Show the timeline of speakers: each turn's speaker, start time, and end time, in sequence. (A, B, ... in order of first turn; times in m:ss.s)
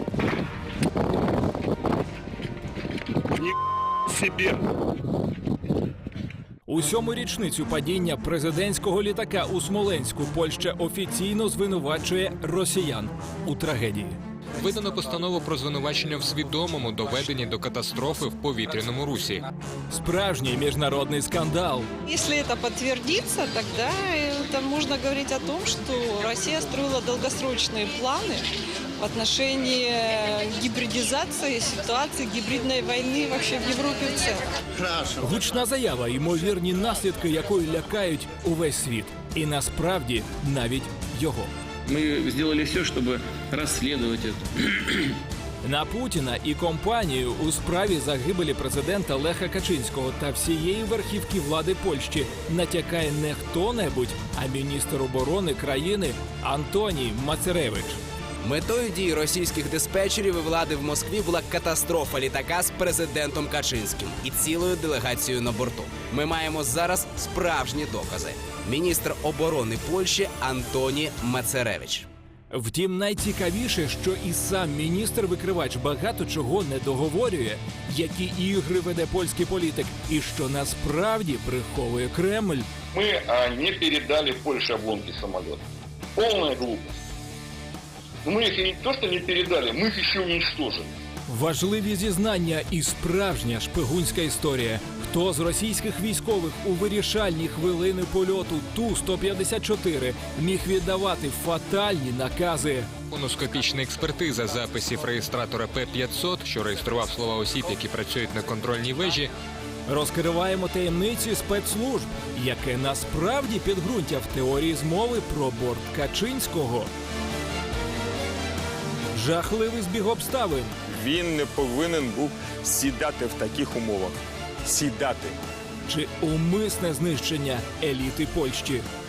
0:06.7-0:14.2 A
0:14.6-0:19.4 B
0:19.9-0:21.9 A
0:22.0-0:28.5 C
0:29.0-0:34.4 C
0:35.2-0:41.5 A
0:41.9-0:45.0 D
0:45.6-0:58.0 A
0:58.4-1:12.1 E
1:12.5-1:22.7 A
1:22.9-1:25.6 F
1:26.2-1:26.9 F
1:28.2-1:30.9 F
1:31.3-1:42.9 A
1:43.1-1:49.3 B
1:49.9-1:56.9 A
1:59.1-2:00.8 A
2:01.0-2:05.4 G
2:05.9-2:08.8 A